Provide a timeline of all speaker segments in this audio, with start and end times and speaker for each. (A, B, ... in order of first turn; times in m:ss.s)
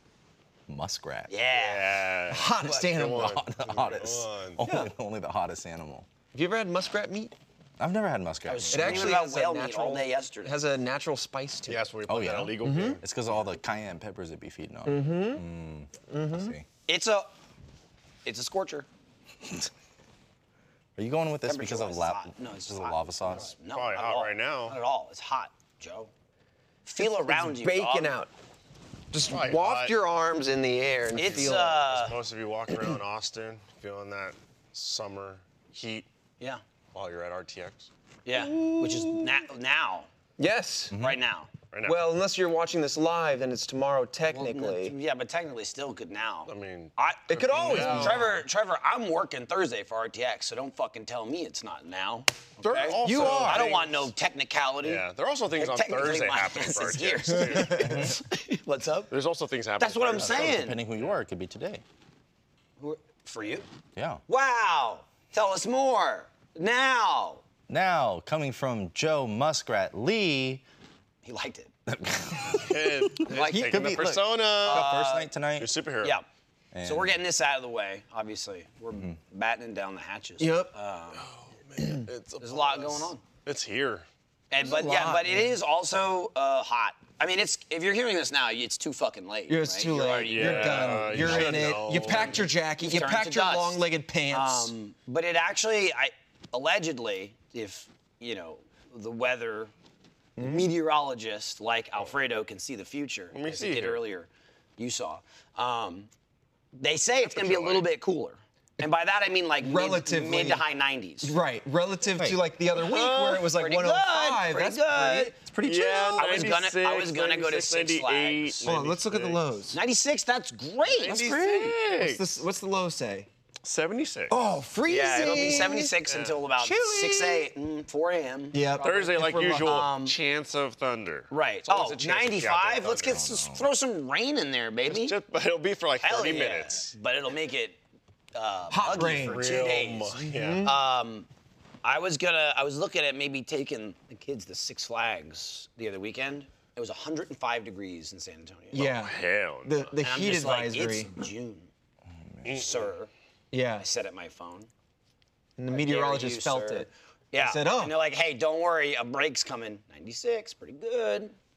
0:00.7-0:01.3 A
0:01.3-0:01.9 B
0:01.5-0:04.6 C
0:02.3-0:03.4 D
0:02.6-0:06.1 A
0:04.6-0:04.9 D
0:06.3-0:07.3 D
0:07.8-0:09.1 A
0:08.4-0:10.5 B
0:08.7-0:11.8 D
0:11.7-0:13.0 C
0:12.1-0:16.6 A
0:12.6-0:13.0 D
0:14.8-0:15.4 D
0:16.1-0:16.5 D
0:16.9-0:17.3 B
0:18.2-0:18.9 B
0:21.0-0:23.5 A
0:21.4-0:26.1 B
0:23.7-0:24.8 C
0:26.8-0:28.1 B
0:27.0-0:28.3 D
0:29.1-0:31.8 D
0:29.3-0:30.0 C
0:31.1-0:32.2 B
0:31.2-0:36.1 C
0:36.9-0:37.9 C
0:38.2-0:40.1 B
0:38.3-0:39.4 D
0:40.4-0:41.0 D
0:40.9-0:41.2 A
0:41.0-0:41.5 B
0:41.7-0:42.0 C
0:41.8-0:44.9 D
0:44.2-0:59.1 B
0:46.5-0:48.3 C
0:47.3-0:48.4 D
0:52.6-0:54.1 C
0:53.0-0:53.7 D
0:54.8-0:58.1 C
0:57.4-0:58.0 D
0:57.7-0:58.2 A
0:59.1-1:01.2 C
0:59.8-1:00.8 B
1:00.2-1:01.8 A
1:02.8-1:03.6 B
1:04.0-1:04.2 A
1:04.3-1:07.4 B
1:07.7-1:10.6 A
1:11.2-1:11.7 B
1:11.9-1:15.7 A
1:12.5-1:14.9 C
1:13.2-1:13.8 B
1:13.4-1:13.8 D
1:14.6-1:15.3 B
1:15.6-1:16.2 C
1:16.7-1:17.2 A
1:16.8-1:21.3 B
1:20.4-1:20.7 D
1:21.2-1:24.1 C
1:22.4-1:23.2 B
1:24.5-1:39.7 B
1:24.6-1:25.6 D
1:29.5-1:34.7 D
1:29.9-1:32.4 C
1:40.4-1:40.7 D
1:40.4-1:46.1 B
1:43.3-1:44.0 C
1:46.7-1:51.4 B
1:47.2-1:47.9 C
1:49.6-1:50.6 D
1:51.2-1:56.6 D
1:52.8-1:53.2 C
1:52.9-1:55.3 B
1:55.6-1:59.4 C
1:56.1-1:58.7 B
1:58.6-1:59.8 D
1:59.7-2:01.2 B
2:00.8-2:02.2 C
2:01.1-2:01.8 A
2:01.9-2:03.3 D
2:03.6-2:04.3 C
2:04.3-2:05.9 D
2:04.9-2:10.2 B
2:05.6-2:06.4 C
2:06.6-2:07.5 D
2:08.5-2:09.9 D
2:08.8-2:13.2 C
2:11.3-2:15.2 B
2:13.1-2:13.6 A
2:14.9-2:16.9 C
2:16.0-2:17.8 B
2:18.3-2:21.3 B
2:18.7-2:20.8 D
2:18.9-2:20.7 C
2:21.8-2:28.8 B
2:28.7-2:29.9 C
2:28.7-2:31.1 D
2:30.0-2:31.7 B
2:32.4-2:32.9 C
2:32.5-2:33.1 B
2:33.5-2:33.8 D
2:33.8-2:34.7 B
2:35.6-2:37.9 D
2:35.7-2:41.4 B